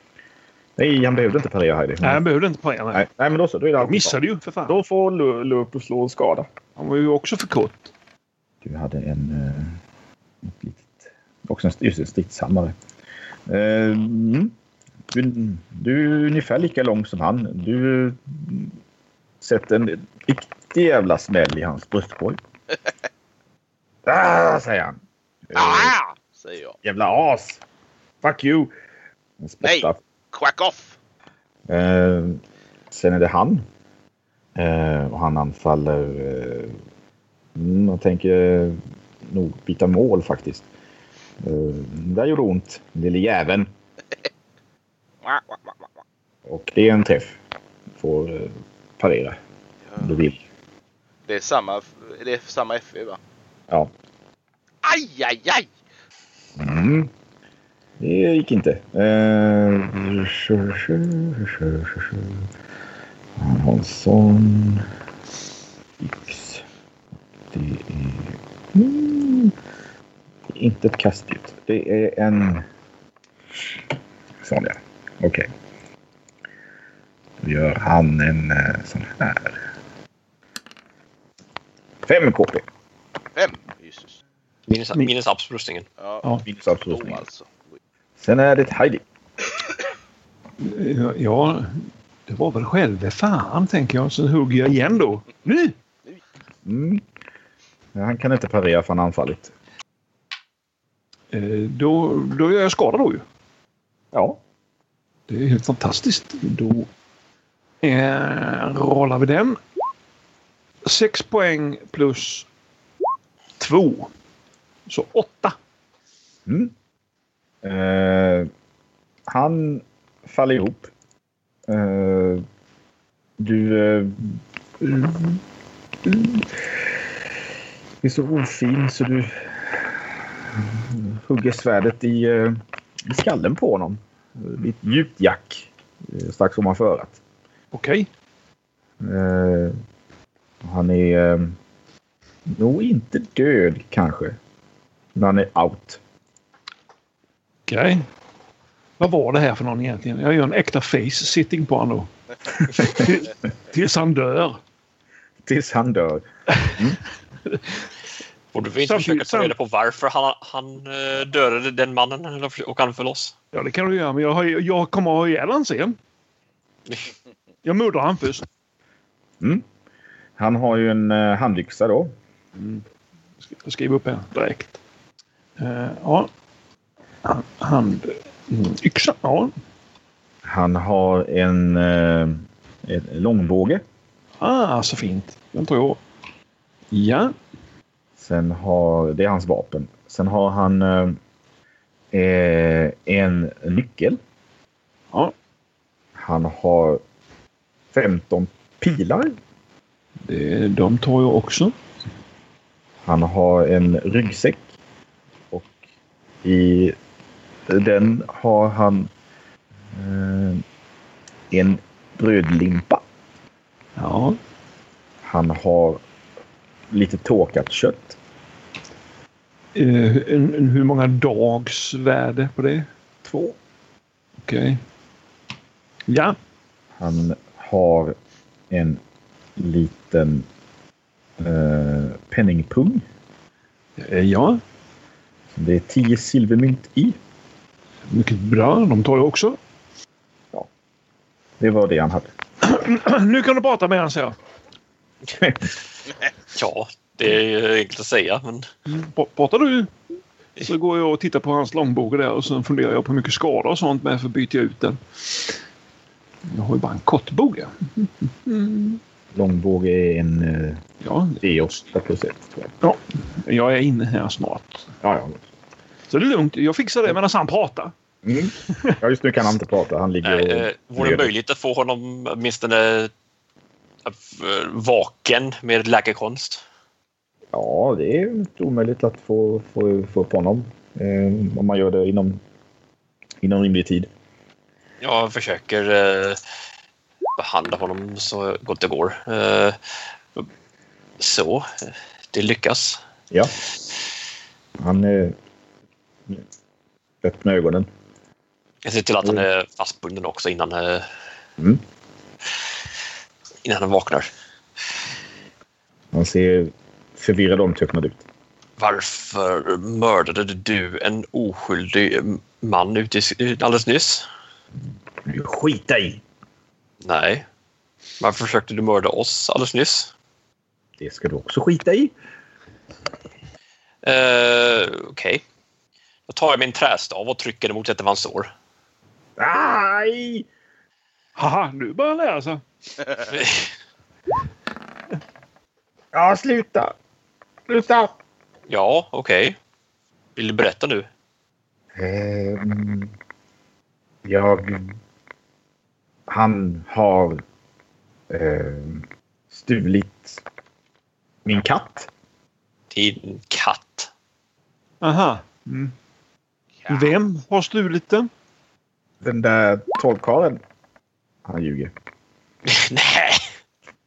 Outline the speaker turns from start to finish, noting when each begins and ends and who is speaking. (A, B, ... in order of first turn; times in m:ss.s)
0:00.8-0:02.2 A
0:02.0-0:03.0 B
0:02.9-0:06.5 A
0:03.8-0:04.8 B
0:06.8-0:07.9 B
0:08.6-0:09.8 A
0:10.4-0:12.8 A
0:13.5-0:14.5 A
0:15.1-0:18.8 A
0:19.4-0:22.4 A
0:24.1-0:26.0 A
0:25.6-0:26.8 C
0:26.8-0:27.6 A
0:28.2-0:28.7 A
0:29.4-0:30.0 A
0:29.6-0:31.0 C
0:31.7-0:33.6 A
0:34.6-0:36.8 A
0:37.6-0:40.7 A
0:41.4-0:43.7 A
0:45.2-0:45.8 C
0:46.5-0:47.4 A
0:48.0-0:49.4 A
0:49.9-0:50.3 C
0:50.0-0:50.4 A
0:51.3-0:53.2 C
0:54.8-0:55.7 C
0:56.6-0:57.1 A
0:58.0-1:02.5 A
1:03.4-1:04.9 A
1:06.0-1:06.6 A
1:07.5-1:09.5 A
1:10.5-1:12.7 A
1:14.4-1:15.5 A
1:17.4-1:19.6 A
1:22.0-1:22.6 A
1:23.4-1:24.2 C
1:24.7-1:25.9 D
1:26.0-1:27.8 C
1:26.5-1:27.2 A
1:28.2-1:29.0 A
1:30.6-1:35.8 B
1:36.6-1:37.0 A
1:38.0-1:39.5 A
1:41.3-1:43.2 B
1:44.1-1:44.4 A
1:45.3-1:46.9 B
1:47.8-1:49.6 B
1:50.8-1:52.5 B
1:53.6-1:54.1 B
1:54.9-1:55.6 B
1:56.5-1:56.7 A
1:57.6-1:58.5 A
1:59.3-2:00.9 A
2:01.7-2:02.4 A
2:03.4-2:05.4 A
2:06.0-2:06.6 A
2:08.0-2:17.2 A
2:17.7-2:18.1 B
2:19.0-2:19.7 A
2:20.6-2:21.6 A
2:22.5-2:24.4 A
2:25.2-2:26.0 A
2:27.7-2:28.1 B
2:29.0-2:32.1 B
2:32.6-2:34.6 B
2:32.8-2:33.1 A
2:35.4-2:37.0 A
2:38.5-2:43.4 D
2:38.8-2:39.6 B
2:43.5-2:46.0 B
2:47.6-2:48.4 B
2:50.4-2:52.1 A
2:52.6-2:52.8 B
2:53.4-2:54.8 B
2:55.6-2:56.3 B
2:57.2-2:59.5 B
3:00.4-3:03.8 A
3:04.4-3:06.0 B
3:06.9-3:07.3 B
3:08.2-3:11.2 A
3:12.1-3:14.2 A
3:16.2-3:17.0 A
3:17.9-3:19.4 A
3:20.2-3:21.8 B
3:23.0-3:24.7 A
3:26.4-3:27.0 A
3:27.7-3:29.1 A
3:29.9-3:30.6 A
3:31.5-3:33.0 A
3:34.0-3:34.4 B
3:35.2-3:36.0 A
3:36.9-3:38.2 A
3:39.8-3:42.9 B
3:43.2-3:43.6 A
3:44.4-3:44.8 B
3:46.1-3:46.4 B
3:47.0-3:48.2 A
3:48.7-3:49.0 A
3:49.6-3:50.5 A
3:51.4-3:53.0 A
3:54.0-3:54.6 B
3:55.5-3:57.2 A
3:58.1-3:59.6 B
4:01.6-4:02.3 A
4:02.6-4:04.4 B
4:05.3-4:05.7 A
4:06.5-4:08.7 D
4:08.9-4:09.9 B
4:10.6-4:15.5 B
4:16.5-4:19.0 B
4:19.3-4:20.8 A
4:21.0-4:21.4 B
4:21.4-4:22.7 A
4:22.8-4:24.9 B
4:25.0-4:25.4 A
4:26.1-4:27.9 B
4:28.2-4:31.3 A
4:30.2-4:33.1 D
4:34.0-4:36.6 D
4:37.5-4:42.4 A
4:43.4-4:44.1 A
4:45.0-4:46.4 D
4:47.4-4:49.8 D
4:51.2-4:53.0 D
4:54.8-4:55.4 A
4:57.2-4:57.9 A
4:58.8-5:01.1 D
5:03.6-5:04.3 D
5:06.1-5:08.2 A
5:08.8-5:14.2 D
5:15.2-5:16.2 A
5:17.0-5:17.4 D
5:18.2-5:20.1 D
5:21.0-5:22.1 A
5:24.0-5:25.4 D
5:26.3-5:28.5 D
5:29.4-5:30.5 A
5:31.4-5:32.6 B
5:33.2-5:33.7 D
5:36.1-5:37.0 A
5:37.7-5:38.1 A
5:38.7-5:39.6 D
5:40.4-5:41.1 D
5:42.0-5:43.1 A
5:44.2-5:44.9 A
5:46.3-5:47.4 A
5:48.3-5:50.4 A
5:51.4-5:52.1 A
5:52.9-5:54.1 D
5:55.0-5:55.9 B
5:56.8-5:57.2 C
5:56.9-5:58.3 B
5:59.2-6:00.6 A
6:01.5-6:01.9 A
6:02.7-6:03.5 D